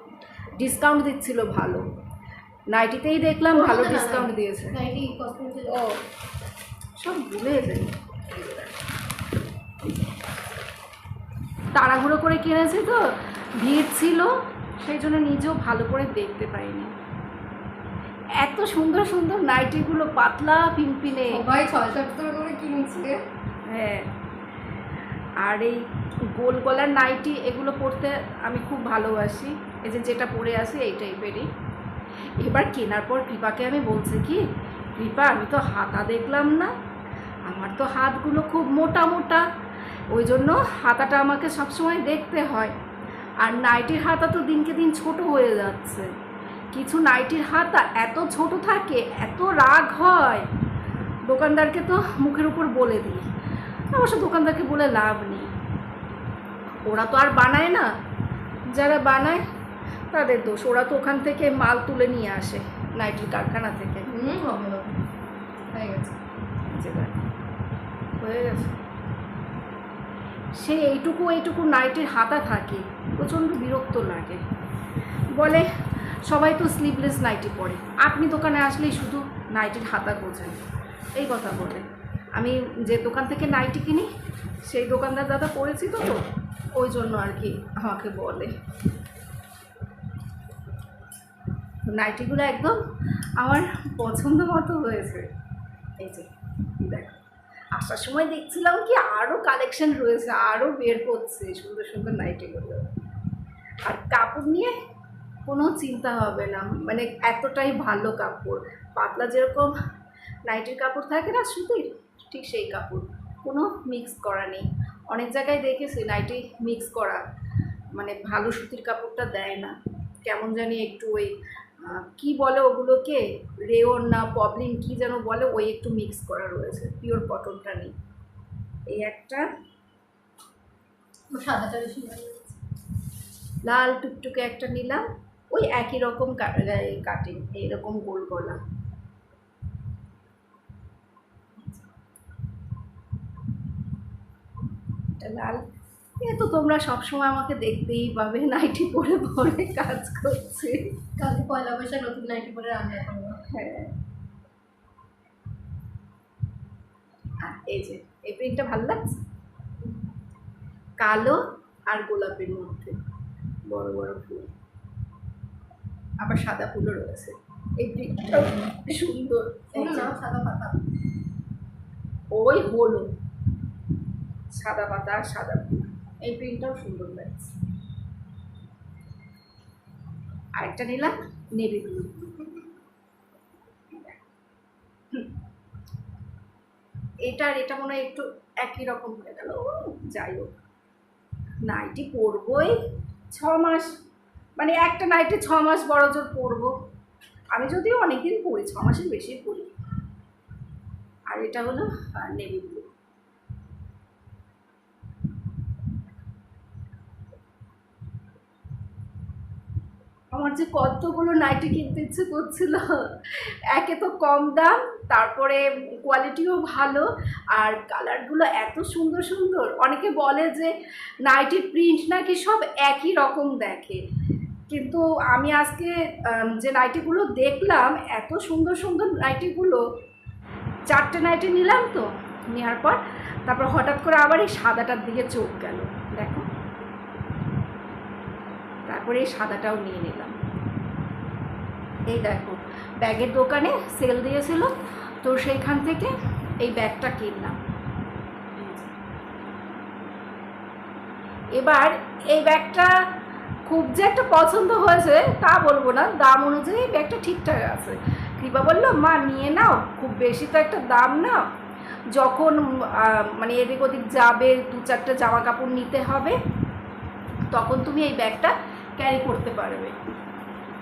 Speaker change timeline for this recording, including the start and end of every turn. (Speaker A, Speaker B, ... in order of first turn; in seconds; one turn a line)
Speaker A: 0.6-1.9
Speaker A: 2.7-4.8
Speaker B: 3.5-5.9
Speaker A: 7.0-8.8
Speaker A: 11.8-13.0
Speaker A: 13.6-14.3
Speaker A: 14.8-16.9
Speaker A: 18.4-21.4
Speaker B: 21.3-23.2
Speaker A: 23.7-24.1
Speaker A: 25.4-25.8
Speaker A: 26.4-31.5
Speaker A: 32.4-34.4
Speaker A: 35.0-36.7
Speaker A: 37.5-39.5
Speaker A: 40.1-42.7
Speaker A: 43.4-46.1
Speaker A: 46.7-50.5
Speaker A: 51.3-53.2
Speaker A: 53.9-55.5
Speaker A: 56.9-57.9
Speaker A: 58.7-59.4
Speaker A: 60.1-64.1
Speaker B: 64.1-65.0
Speaker B: 65.7-66.2
Speaker A: 66.7-67.2
Speaker A: 68.2-68.8
Speaker A: 70.6-74.4
Speaker A: 75.3-75.7
Speaker A: 76.3-80.6
Speaker A: 81.2-81.8
Speaker A: 82.4-84.1
Speaker A: 84.7-86.2
Speaker A: 86.8-88.5
Speaker A: 91.9-92.8
Speaker A: 93.4-95.3
Speaker A: 96.0-97.2
Speaker A: 97.8-102.9
Speaker A: 103.9-104.7
Speaker A: 105.5-109.8
Speaker A: 110.5-117.2
Speaker A: 118.0-119.7
Speaker A: 120.2-127.9
Speaker A: 128.9-129.5
Speaker B: 131.3-132.6
Speaker A: 133.6-138.6
Speaker A: 145.2-145.6
Speaker A: 146.2-151.0
Speaker B: 151.2-153.4
Speaker A: 153.5-153.9
Speaker A: 157.4-159.2
Speaker A: 161.0-163.0
Speaker A: 163.7-164.5
Speaker A: 166.2-170.1
Speaker B: 169.8-170.8
Speaker A: 172.3-173.1
Speaker A: 174.5-177.6
Speaker A: 180.6-182.6
Speaker A: 183.9-184.2
Speaker A: 187.2-190.5
Speaker A: 191.7-192.8
Speaker A: 193.3-193.9
Speaker A: 194.6-196.7
Speaker A: 197.5-199.7
Speaker A: 201.3-202.9
Speaker A: 210.3-213.0
Speaker A: 213.7-220.7
Speaker A: 221.3-224.0
Speaker A: 224.7-229.8
Speaker A: 230.9-236.5
Speaker A: 238.9-240.3
Speaker A: 242.1-247.6
Speaker A: 248.6-248.9
Speaker A: 251.5-252.9
Speaker A: 253.7-261.4
Speaker A: 262.1-266.4
Speaker A: 267.5-269.9